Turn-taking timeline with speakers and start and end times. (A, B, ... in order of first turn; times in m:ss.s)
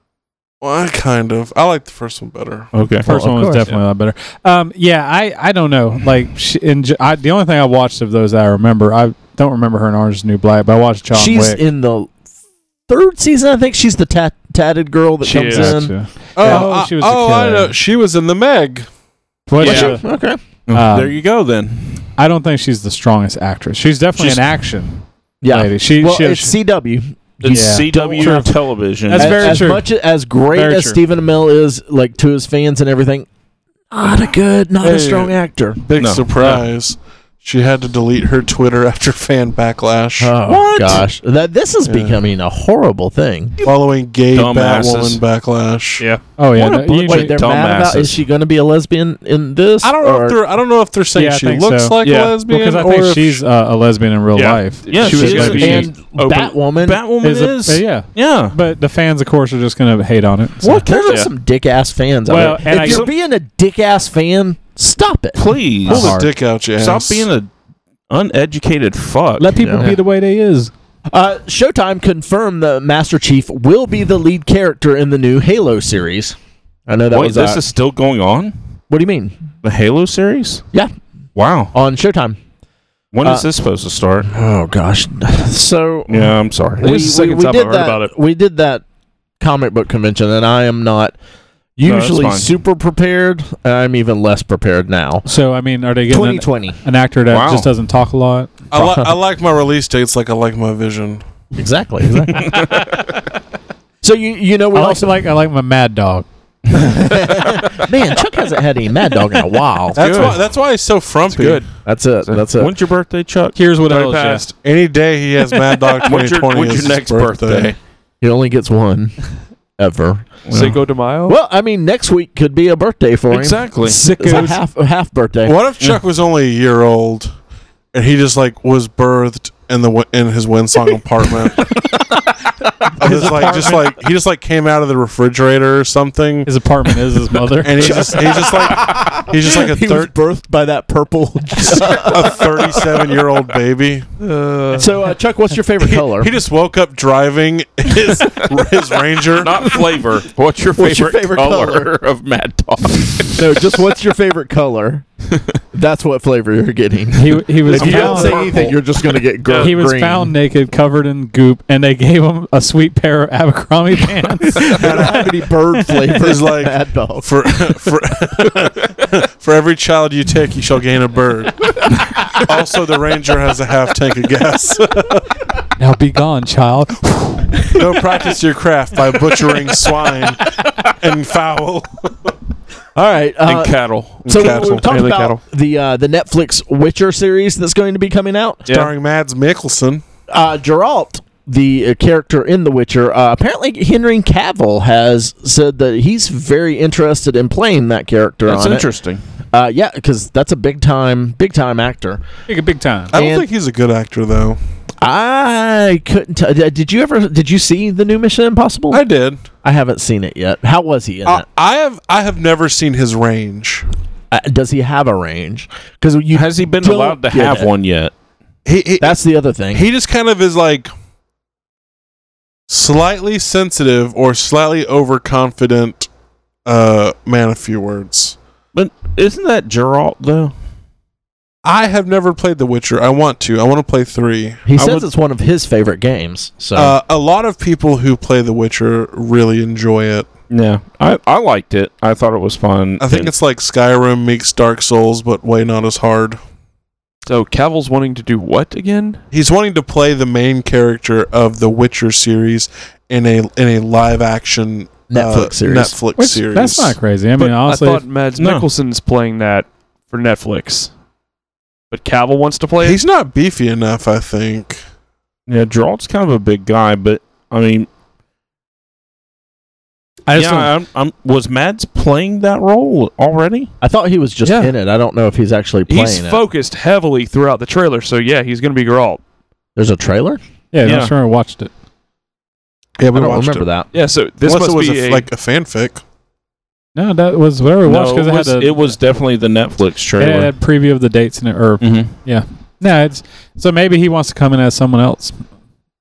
0:00.6-0:02.7 A
0:02.7-0:03.2 B
0:03.0-0:11.6 C
0:03.1-0:03.6 D
0:11.1-0:12.1 D
0:12.9-0:15.9 D
0:15.2-0:15.8 E
0:15.5-0:17.8 C
0:16.4-0:18.9 A
0:19.5-0:20.0 C
0:19.6-0:20.4 D
0:19.6-0:19.9 E
0:20.7-0:22.1 B
0:20.7-0:21.2 C
0:22.2-0:26.5 C
0:25.4-0:28.4 D
0:27.4-0:29.6 B
0:27.5-0:29.9 C
0:29.1-0:33.3 D
0:30.5-0:31.0 C
0:33.9-0:35.8 D
0:34.8-0:40.3 A
0:36.0-0:36.6 B
0:40.2-0:43.6 D
0:40.4-0:41.0 B
0:41.8-0:42.2 A
0:43.6-0:46.0 A
0:44.3-0:45.2 B
0:46.4-0:47.4 C
0:46.5-0:48.2 B
0:47.1-0:50.4 D
0:49.8-0:53.4 A
0:51.1-0:55.7 C
0:52.0-0:52.4 E
0:54.3-0:56.5 E
0:54.9-0:55.9 B
0:55.4-0:57.0 D
0:56.7-0:58.6 B
0:57.2-1:00.9 C
1:00.6-1:01.3 B
1:00.8-1:05.5 D
1:02.2-1:03.0 C
1:02.6-1:03.1 B
1:05.4-1:06.1 B
1:05.8-1:07.3 A
1:05.9-1:06.3 C
1:06.8-1:07.5 B
1:08.1-1:09.6 B
1:09.4-1:10.7 C
1:09.5-1:10.0 D
1:11.1-1:16.4 D
1:16.9-1:17.6 D
1:17.1-1:18.5 B
1:18.9-1:19.4 D
1:19.6-1:20.6 B
1:21.4-1:21.7 B
1:21.7-1:22.4 D
1:23.1-1:24.3 B
1:24.3-1:28.8 D
1:26.1-1:26.9 B
1:26.8-1:28.1 E
1:29.4-1:31.1 D
1:31.8-1:35.2 D
1:31.8-1:32.5 B
1:35.2-1:38.5 C
1:36.1-1:36.8 D
1:37.3-1:37.7 B
1:38.7-1:41.2 A
1:38.7-1:39.1 D
1:41.5-1:42.7 D
1:42.3-1:42.9 B
1:44.0-1:45.2 D
1:44.7-1:46.2 C
1:46.7-1:50.3 D
1:49.9-1:51.7 A
1:50.0-1:50.4 E
1:51.3-1:51.7 E
1:51.8-1:52.7 D
1:52.5-1:53.6 B
1:53.5-1:54.4 C
1:53.9-1:54.4 E
1:54.4-1:57.7 A
1:56.0-1:57.8 B
1:58.2-2:00.3 D
2:00.5-2:00.8 B
2:00.5-2:01.4 E
2:01.3-2:05.6 D
2:03.3-2:04.0 B
2:03.9-2:04.5 C
2:03.9-2:04.6 E
2:05.4-2:07.3 A
2:07.9-2:11.6 A
2:13.0-2:13.9 C
2:13.0-2:16.5 A
2:16.4-2:18.1 C
2:17.6-2:20.1 A
2:17.8-2:23.2 D
2:21.7-2:24.0 A
2:24.2-2:25.1 E
2:24.7-2:26.3 D
2:25.8-2:29.8 A
2:29.3-2:33.8 B
2:30.8-2:31.9 D
2:33.3-2:35.0 D
2:35.7-2:40.3 D
2:37.1-2:38.5 C
2:37.7-2:39.2 B
2:39.4-2:39.7 E
2:39.6-2:45.3 C
2:44.5-2:47.9 D
2:44.6-2:45.4 A
2:46.1-2:55.3 A
2:55.8-2:57.7 C
2:57.7-3:02.3 A
3:02.9-3:08.7 D
3:03.4-3:04.6 B
3:04.2-3:04.9 A
3:04.9-3:05.4 E
3:08.6-3:08.9 E
3:08.7-3:10.0 A
3:10.3-3:18.8 D
3:18.4-3:19.2 B
3:19.5-3:22.2 D
3:22.5-3:23.1 C
3:23.1-3:24.6 A
3:23.1-3:23.4 D
3:25.0-3:29.0 D
3:28.9-3:29.5 A
3:29.6-3:31.4 D
3:31.2-3:33.8 A
3:34.3-3:37.7 D
3:36.3-3:38.1 B
3:38.6-3:39.2 A
3:39.0-3:39.8 D
3:39.7-3:40.9 A
3:42.7-3:46.1 A
3:46.6-3:48.4 A
3:48.7-3:50.5 B
3:51.6-3:54.6 A
3:54.6-3:57.0 D
3:54.8-3:55.1 B
3:56.7-4:00.3 A
4:00.5-4:03.3 B
4:03.0-4:06.4 A
4:07.2-4:09.2 E
4:09.3-4:17.0 A
4:15.1-4:16.0 D
4:16.2-4:18.0 C
4:17.4-4:20.9 E
4:18.4-4:18.7 B
4:21.9-4:23.0 E
4:22.8-4:24.8 A
4:25.5-4:27.9 B
4:30.3-4:30.7 C
4:30.3-4:33.7 B
4:33.8-4:36.4 D
4:34.4-4:34.7 E
4:35.9-4:39.2 E
4:39.8-4:40.4 D
4:40.7-4:41.7 C
4:40.8-4:41.1 B
4:43.0-4:43.7 A
4:43.1-4:43.9 D
4:43.9-4:45.3 E
4:44.4-4:46.0 A
4:46.9-4:49.0 C
4:47.8-4:50.5 B
4:50.2-4:55.4 C
4:51.8-4:52.1 B